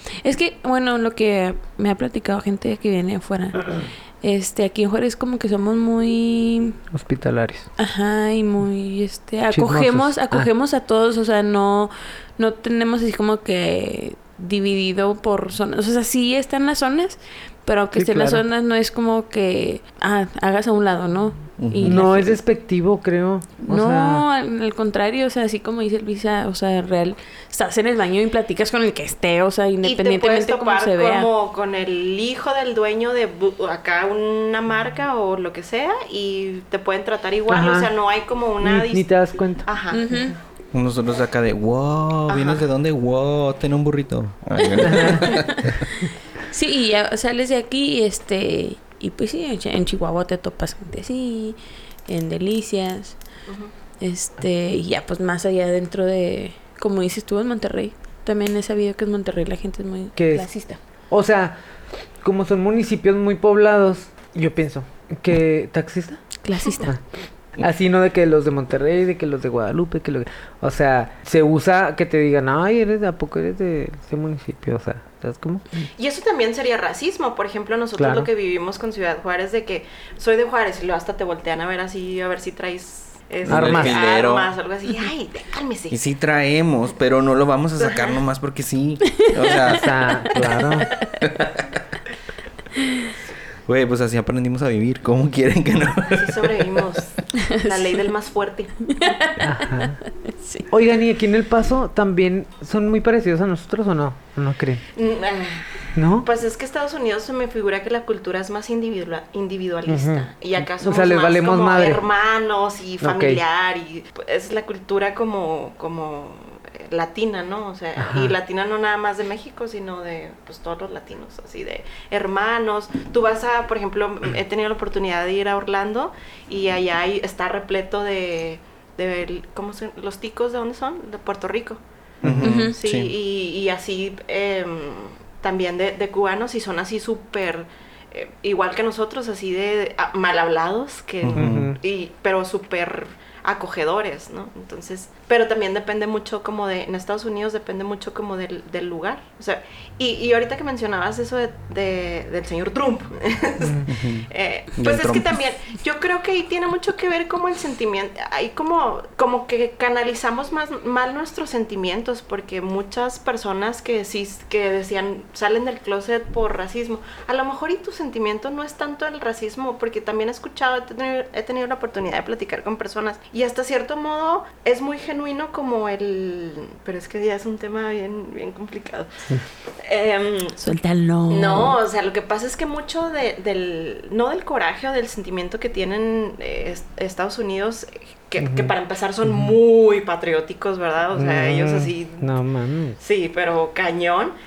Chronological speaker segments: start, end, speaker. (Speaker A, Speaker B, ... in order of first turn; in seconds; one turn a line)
Speaker A: 0.2-6.8
Speaker B: 6.9-7.7
Speaker A: 7.8-22.4
Speaker B: 9.5-10.5
Speaker B: 17.9-18.4
Speaker C: 21.6-22.1
Speaker B: 21.8-24.2
Speaker A: 23.7-31.3
Speaker D: 29.8-39.1
Speaker B: 37.5-37.9
Speaker B: 38.6-39.7
Speaker D: 39.6-40.3
Speaker A: 39.9-40.4
Speaker C: 40.7-45.8
Speaker D: 42.3-42.6
Speaker A: 44.6-53.2
Speaker B: 44.8-45.3
Speaker D: 53.5-53.7
Speaker A: 54.0-60.8
Speaker B: 60.1-60.5
Speaker B: 61.1-61.6
Speaker B: 62.2-66.3
Speaker A: 66.4-66.9
Speaker B: 67.6-75.6
Speaker D: 76.0-86.0
Speaker B: 78.0-78.3
Speaker C: 83.4-84.5
Speaker B: 83.5-84.0
Speaker C: 85.9-89.9
Speaker D: 87.8-88.2
Speaker A: 89.2-89.7
Speaker B: 89.7-90.9
Speaker C: 91.2-91.7
Speaker C: 93.7-97.0
Speaker D: 96.1-99.2
Speaker A: 97.4-97.8
Speaker A: 98.9-100.7
Speaker B: 99.4-100.0
Speaker B: 100.7-104.8
Speaker D: 104.9-131.8
Speaker B: 105.9-106.3
Speaker B: 109.9-112.0
Speaker B: 113.0-113.4
Speaker B: 118.0-118.3
Speaker B: 132.2-132.5
Speaker C: 132.2-133.1
Speaker D: 132.4-179.1
Speaker A: 132.4-132.8
Speaker C: 141.2-141.7
Speaker B: 141.3-141.8
Speaker B: 153.6-153.9
Speaker C: 153.9-155.4
Speaker D: 179.8-180.6
Speaker A: 180.6-181.8
Speaker D: 181.3-192.3
Speaker B: 188.4-188.7
Speaker B: 189.3-189.5
Speaker B: 191.1-193.0
Speaker D: 193.0-194.3